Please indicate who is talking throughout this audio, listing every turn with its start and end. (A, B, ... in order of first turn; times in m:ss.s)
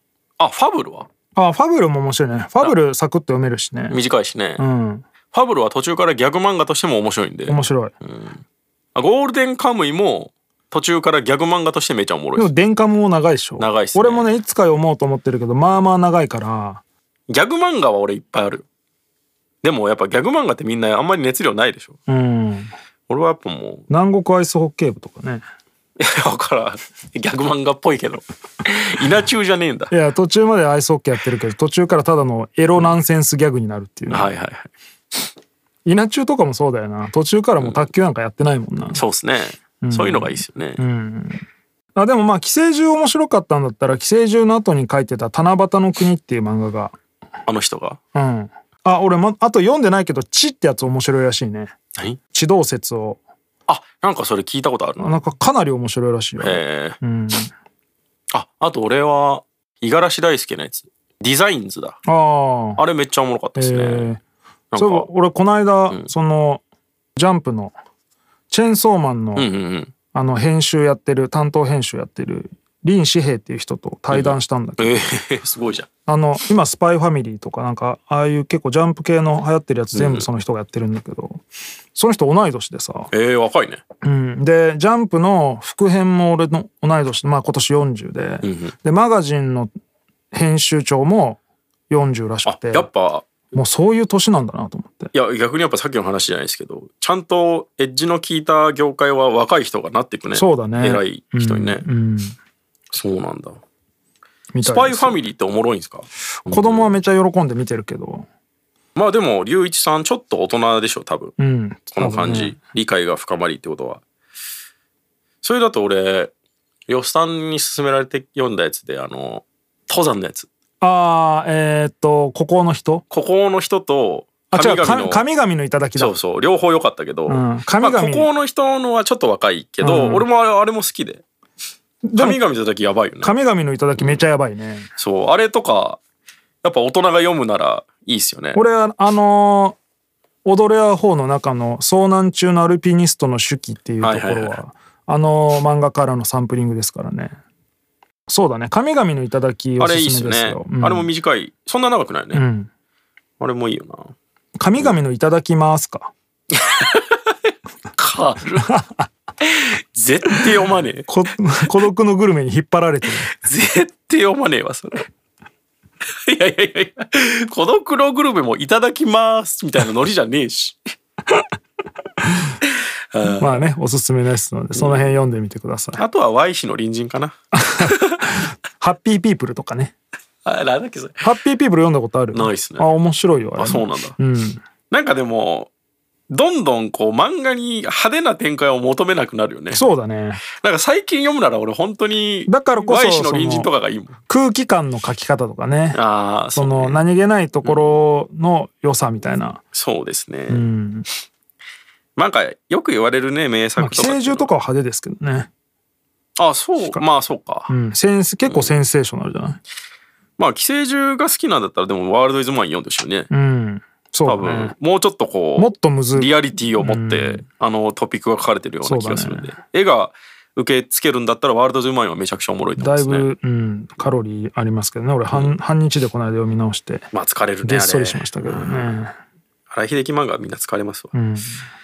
0:00.4-0:01.1 A
0:01.4-0:04.0 B
0:03.9-0:04.6 A
0:04.6-0:05.0 B
0:05.3-0:08.4 A
0:07.5-0:07.9 B
0:09.0-0:12.5 A
0:12.4-0:16.8 B
0:13.6-0:14.4 A
0:17.3-0:18.6 A
0:19.6-0:22.0 A
0:22.1-0:22.7 B
0:23.1-0:23.8 A
0:23.9-0:25.4 B
0:26.0-0:29.9 A
0:29.9-0:34.3 B
0:34.1-0:34.7 A
0:35.8-0:39.0 B
0:38.9-0:40.8 A
0:39.8-0:41.4 B
0:42.0-0:47.0 B
0:47.5-0:48.0 A
0:48.1-0:51.8 B
0:52.3-0:53.2 B
0:53.7-0:55.2 A
0:55.0-0:57.5 B
0:56.4-0:57.0 A
0:58.3-1:02.0 A
1:02.1-1:02.8 B
1:02.8-1:04.1 A
1:03.6-1:04.2 B
1:04.7-1:05.1 A
1:04.8-1:06.6 B
1:07.2-1:07.8 B
1:08.5-1:09.5 B
1:09.4-1:09.9 A
1:10.1-1:15.1 B
1:14.1-1:15.9 A
1:16.1-1:23.1 B
1:19.9-1:20.3 A
1:23.1-1:23.8 A
1:24.0-1:29.7 B
1:28.4-1:28.7 A
1:30.3-1:31.4 B
1:31.9-1:32.9 B
1:32.5-1:33.3 A
1:33.5-1:35.1 B
1:35.1-1:41.8 A
1:40.3-1:42.4 B
1:42.9-1:43.6 A
1:44.5-1:45.2 B
1:44.6-1:46.9 A
1:46.5-1:48.3 B
1:49.0-1:51.3 A
1:51.4-1:52.6 B
1:51.9-1:54.0 A
1:55.4-1:56.3 A
1:56.9-2:00.5 A
2:00.8-2:03.0 B
2:03.1-2:05.2 A
2:04.5-2:06.1 B
2:06.0-2:11.2 A
2:07.3-2:08.3 B
2:09.8-2:10.3 B
2:12.0-2:12.4 B
2:12.2-2:13.4 A
2:13.2-2:14.9 B
2:14.0-2:14.2 A
2:15.0-2:16.0 A
2:16.6-2:18.6 A
2:18.5-2:19.8 B
2:20.4-2:27.4 B
2:24.0-2:24.6 A
2:28.3-2:31.1 B
2:29.8-2:32.4 A
2:32.3-2:32.7 B
2:33.4-2:34.1 A
2:34.6-2:36.1 B
2:36.5-2:37.3 A
2:38.0-2:38.8 A
2:39.4-2:41.1 A
2:41.1-2:43.3 B
2:43.4-2:45.1 A
2:46.3-2:50.8 A
2:52.2-2:52.5 B
2:52.7-2:53.7 A
2:53.4-2:56.0 B
2:54.8-2:55.2 A
2:56.0-2:58.3 A
2:57.5-2:59.9 B
3:00.4-3:01.2 A
3:01.2-3:04.6 B
3:02.3-3:02.9 A
3:03.6-3:04.2 A
3:04.9-3:05.7 A
3:06.3-3:09.8 A
3:09.7-3:10.4 B
3:10.6-3:14.1 A
3:12.5-3:13.7 B
3:14.3-3:16.0 B
3:15.9-3:17.0 A
3:16.6-3:19.6 B
3:17.6-3:18.0 A
3:19.7-3:20.7 A
3:20.5-3:21.1 B
3:22.2-3:24.5 A
3:23.8-3:25.5 B
3:26.4-3:27.7 A
3:27.7-3:29.6 B
3:28.4-3:28.8 A
3:30.4-3:33.3 A
3:33.3-3:34.8 B
3:34.3-3:43.3 A
3:35.6-3:37.4 B
3:38.8-3:39.5 B
3:42.8-3:47.1 B
3:47.1-3:49.0 A
3:47.6-3:49.2 B
3:49.7-3:51.1 A
3:51.1-3:51.6 B